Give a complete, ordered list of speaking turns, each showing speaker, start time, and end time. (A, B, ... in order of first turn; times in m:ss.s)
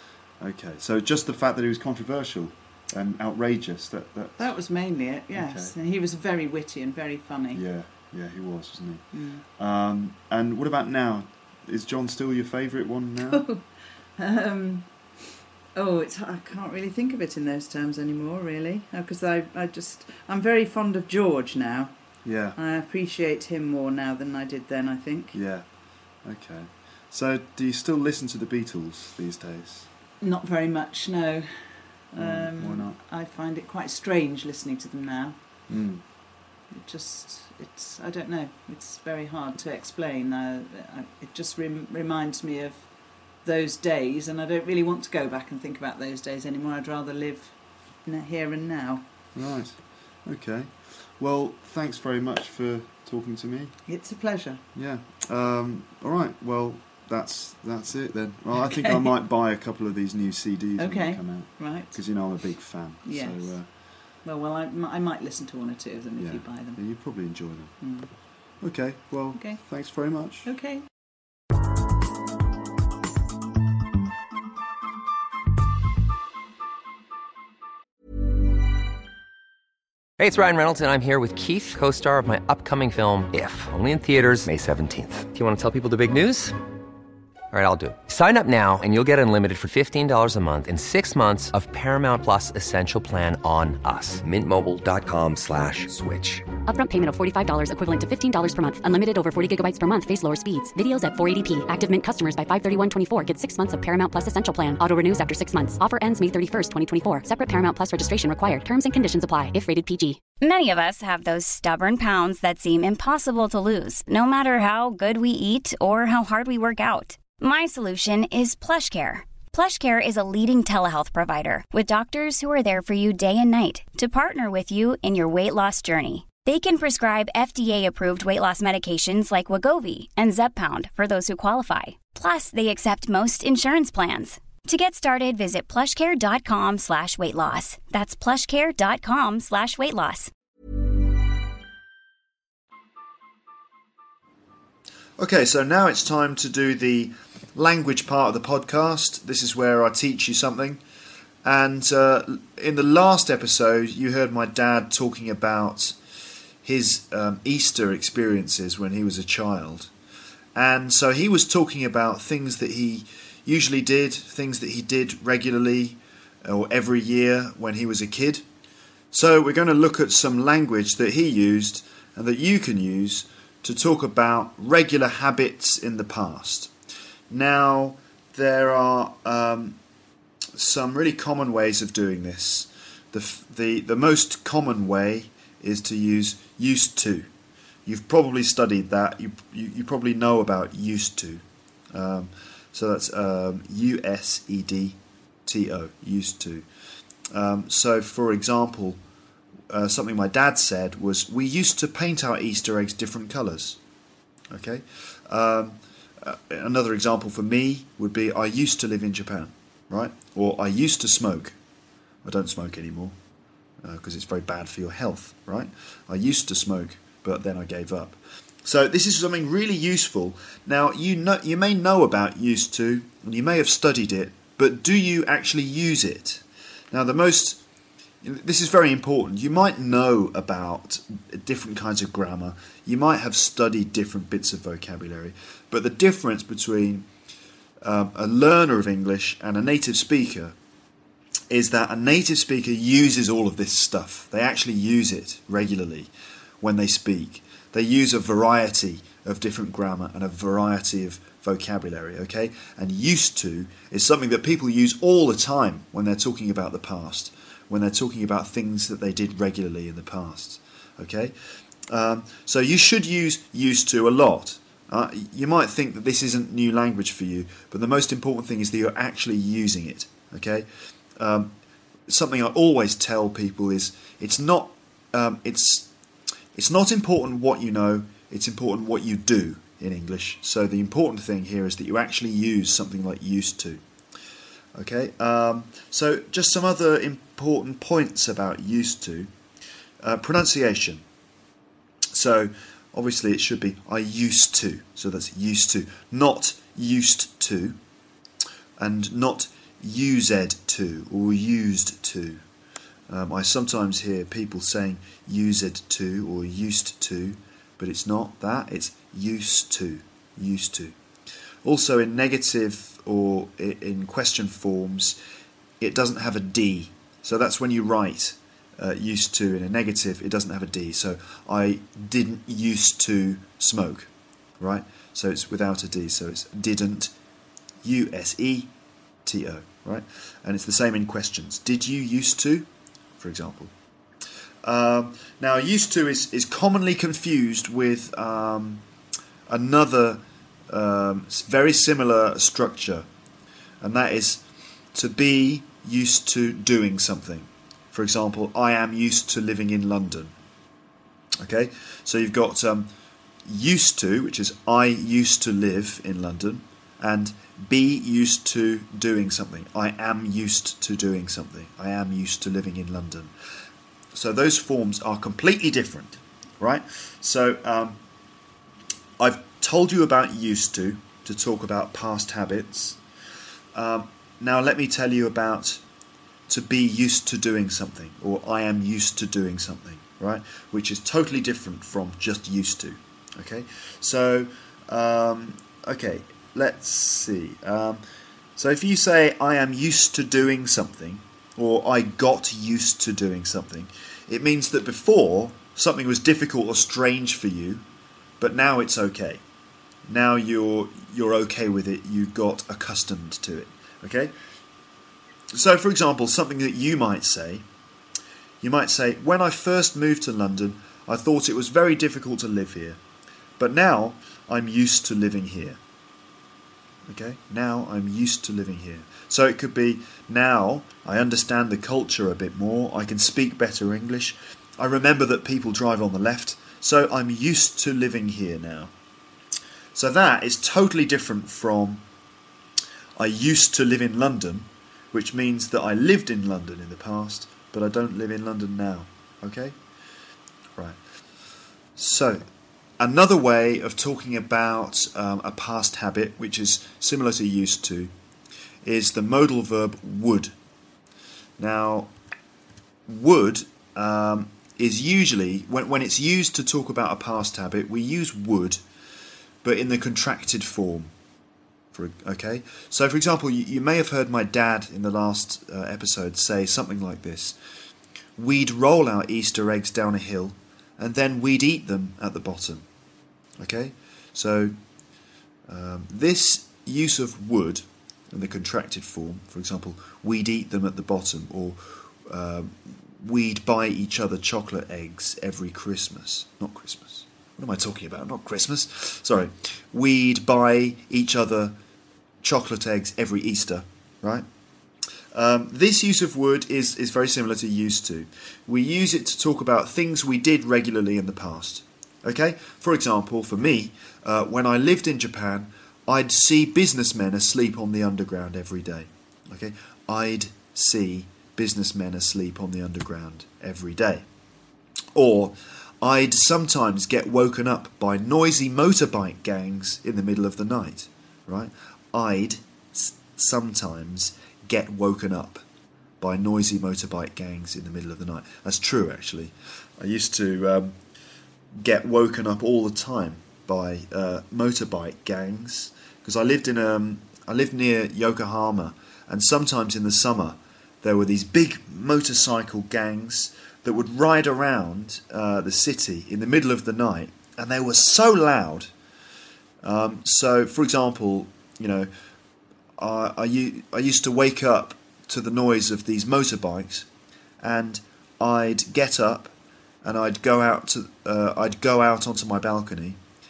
0:00.4-0:04.5 A
0:04.4-0:07.6 B
0:05.3-0:05.8 A
0:07.5-0:09.0 A
0:09.1-0:09.4 B
0:09.6-0:13.4 A
0:13.3-0:13.6 B
0:14.2-0:14.9 B
0:15.8-0:21.9 B
0:22.2-0:22.6 A
0:22.6-0:25.4 B
0:25.3-0:25.7 A
0:26.2-0:29.9 A
0:30.2-0:35.4 B
0:32.2-0:33.0 A
0:35.7-0:36.0 A
0:36.7-0:42.9 B
0:43.4-0:49.0 B
0:49.4-0:53.8 A
0:53.9-0:54.6 B
0:54.7-1:03.7 A
0:58.6-0:59.1 B
1:00.8-1:02.0 B
1:03.0-1:03.6 B
1:04.2-1:06.8 B
1:06.2-1:07.8 A
1:07.8-1:08.1 B
1:08.6-1:10.5 A
1:09.4-1:09.6 B
1:10.4-1:10.9 B
1:20.2-1:26.6 C
1:27.5-1:36.5 C
1:36.6-1:50.2 D
1:50.4-2:20.3 E
2:25.2-2:30.8 A
2:31.4-2:36.0 A
2:36.6-2:39.9 A
2:40.5-2:48.4 A
2:49.1-2:56.7 A
2:57.3-2:59.8 A
3:00.5-3:07.3 A
3:07.9-3:16.6 A
3:17.3-3:19.0 A
3:19.7-3:23.8 A
3:24.5-3:31.6 A
3:32.2-3:33.2 A
3:33.8-3:47.6 A
3:48.2-3:57.1 A
3:57.8-4:00.6 A
4:01.5-4:21.4 A
4:21.9-4:31.5 A
4:32.1-4:35.9 A
4:36.5-4:43.8 A
4:44.8-4:49.3 A
4:50.0-4:51.0 A
4:52.1-4:57.8 A
4:58.8-5:02.4 A
5:03.1-5:11.0 A
5:11.6-5:15.2 A
5:15.8-5:27.1 A
5:27.8-5:28.7 A
5:29.2-5:33.7 A
5:34.6-5:38.8 A
5:39.5-5:43.1 A
5:43.8-5:50.4 A
5:51.4-5:52.9 A
5:53.4-6:03.3 A
6:04.1-6:08.0 A
6:09.2-6:13.0 A
6:13.7-6:15.8 A
6:16.5-6:28.0 A
6:28.6-6:37.8 A
6:38.4-6:39.4 A
6:40.1-6:44.3 A
6:45.5-6:47.6 A
6:48.6-6:53.0 A
6:53.6-6:55.8 A
6:57.0-7:08.9 A
7:09.9-7:12.0 A
7:13.2-7:19.8 A
7:22.0-7:22.4 A
7:23.0-7:28.1 A
7:28.8-7:30.5 A
7:31.6-7:32.1 A
7:33.0-7:38.8 A
7:39.6-7:41.1 A
7:41.9-7:47.6 A
7:48.4-7:52.9 A
7:53.6-7:54.8 A
7:55.7-8:11.8 A
8:12.4-8:14.5 A
8:15.3-8:34.2 A
8:35.1-8:45.6 A
8:46.2-8:51.0 A
8:51.7-9:08.9 A
9:09.8-9:12.1 A
9:13.0-9:17.1 A
9:17.6-9:23.2 A